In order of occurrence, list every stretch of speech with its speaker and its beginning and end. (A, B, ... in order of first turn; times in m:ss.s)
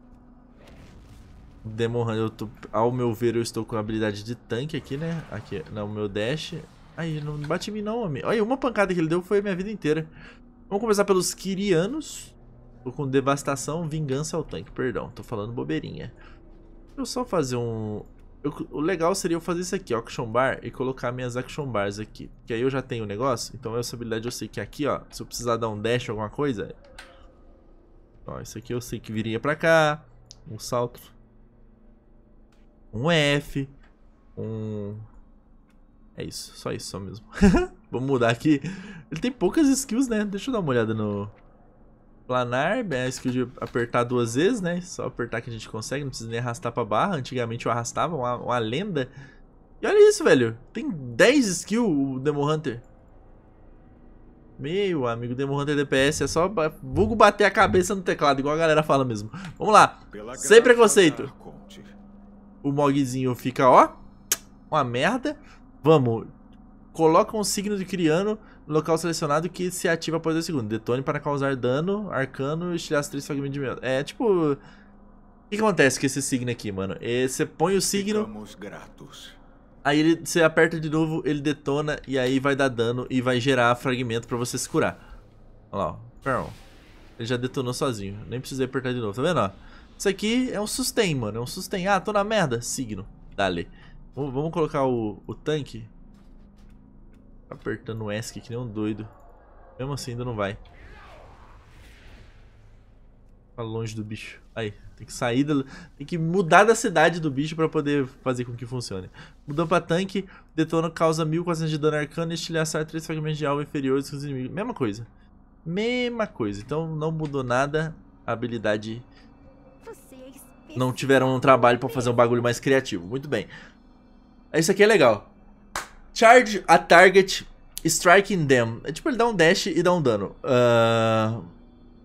0:01.6-0:10.1 A
0:10.7-0:16.2 A
0:17.0-0:26.8 A
0:28.2-0:31.1 A
0:32.9-0:33.7 A
0:34.4-0:35.0 A
0:36.2-0:41.4 A
0:42.3-0:49.1 A
0:49.8-0:52.8 A
0:54.6-1:01.3 A
1:00.1-1:01.9 B
1:02.6-1:04.0 A
1:04.7-1:06.3 A
1:06.9-1:14.6 A
1:15.5-1:18.3 A
1:17.9-1:19.4 B
1:19.8-1:25.0 A
1:25.7-1:26.6 A
1:27.2-1:35.9 A
1:37.5-1:39.1 A
1:39.8-1:40.6 A
1:43.6-1:55.1 A
1:55.6-1:59.1 A
1:59.8-2:02.3 C
2:00.7-2:03.5 A
2:04.5-2:05.3 A
2:06.1-2:11.5 A